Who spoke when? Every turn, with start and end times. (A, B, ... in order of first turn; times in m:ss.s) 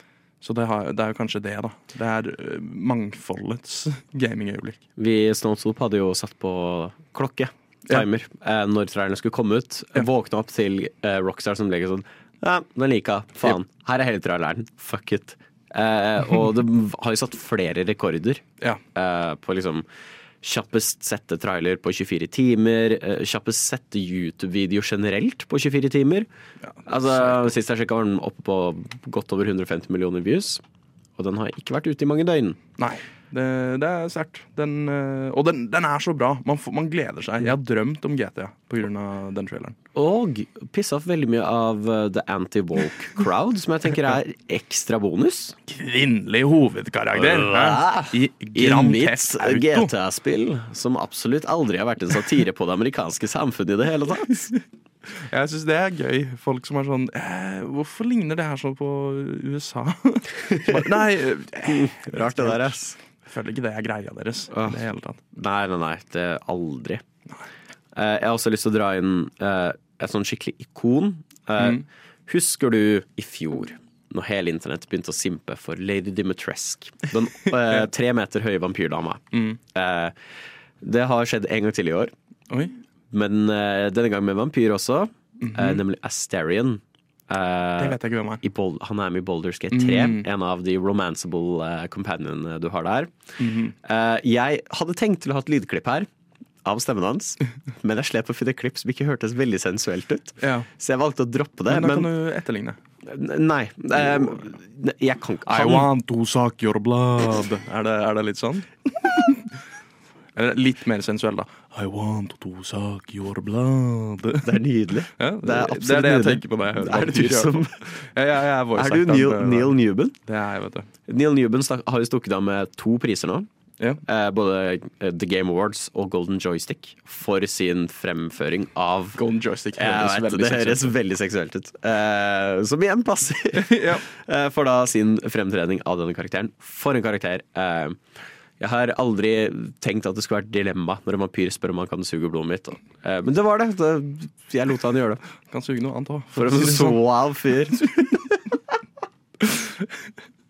0:00.4-0:04.8 A
0:05.0-0:19.8 B
0:20.4-0:26.3 B
0:26.6-0:27.5 A
0:26.8-0:30.6 B
0:31.2-0:32.6 B
0:32.8-0:39.8 A
0:39.9-0:45.5 B
0:45.7-0:49.9 A
0:47.1-0:54.5 B
0:55.3-1:05.2 A
1:00.5-1:00.8 B
1:01.7-1:03.0 B
1:04.5-1:04.8 B
1:05.3-1:07.0 B
1:07.9-1:20.1 B
1:11.6-1:11.8 A
1:19.3-1:19.6 A
1:20.8-1:22.1 B
1:22.5-1:22.8 A
1:23.1-1:33.1 B
1:25.4-1:25.8 A
1:27.8-1:28.4 A
1:29.7-1:30.2 A
1:33.4-1:33.7 A
1:33.8-1:36.1 B
1:36.6-1:42.1 B
1:40.4-1:40.7 A
1:41.7-1:42.8 A
1:43.0-1:45.9 B
1:44.0-1:44.4 A
1:45.5-1:49.5 A
1:50.3-1:54.6 A
1:54.4-1:57.8 B
1:55.2-2:00.9 A
1:58.7-2:00.2 B
2:01.1-2:03.5 B
2:04.0-2:09.2 B
2:09.2-2:10.9 A
2:09.8-2:18.0 B
2:13.6-2:14.0 A
2:18.6-2:25.2 B
2:25.5-2:28.0 A
2:26.3-2:28.4 B
2:29.4-2:29.7 A